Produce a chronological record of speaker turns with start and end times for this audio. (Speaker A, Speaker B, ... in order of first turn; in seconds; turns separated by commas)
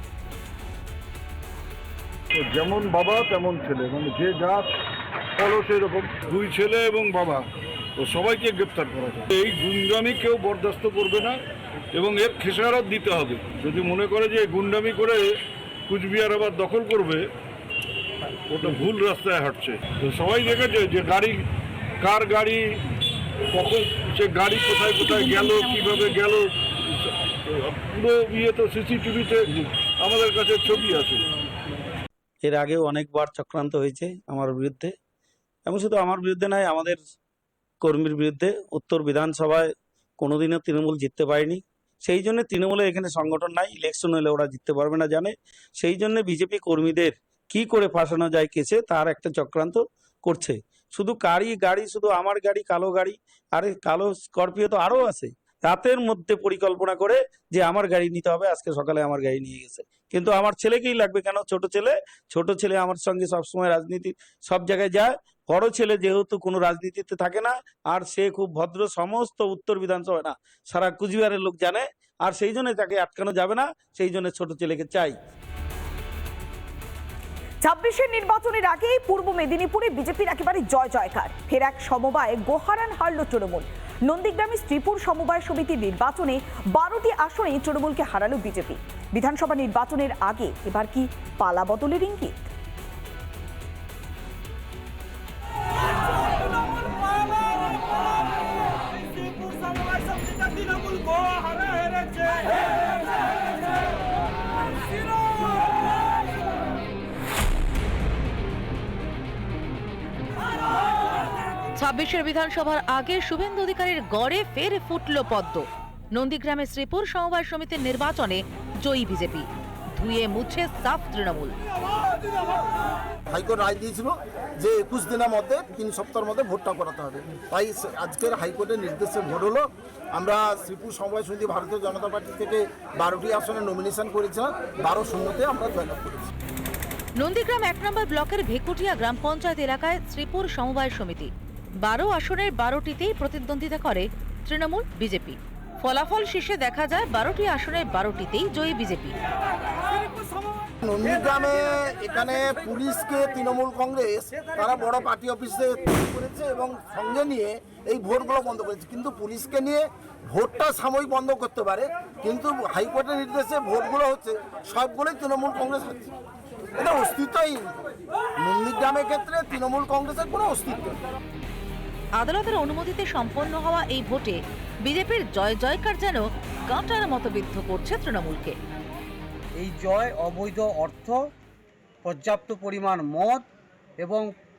Speaker A: 2.3-4.7, Speaker A: 5.4-7.5, Speaker A: 8.0-11.4, Speaker A: 11.9-15.3, Speaker A: 15.9-17.2, Speaker A: 18.5-21.4, Speaker A: 22.0-22.7, Speaker A: 23.5-26.5, Speaker A: 27.5-31.2, Speaker B: 32.4-34.9, Speaker B: 35.6-37.1, Speaker B: 37.8-75.2, Speaker C: 77.6-92.5, Speaker D: 111.7-121.5, Speaker E: 123.3-136.3, Speaker D: 137.2-141.3, Speaker D: 141.8-149.2, Speaker E: 150.8-166.1, Speaker E: 166.8-167.7, Speaker E: 168.4-171.0, Speaker D: 172.2-178.5, Speaker F: 179.6-181.2, Speaker F: 182.0-183.5, Speaker F: 184.0-184.3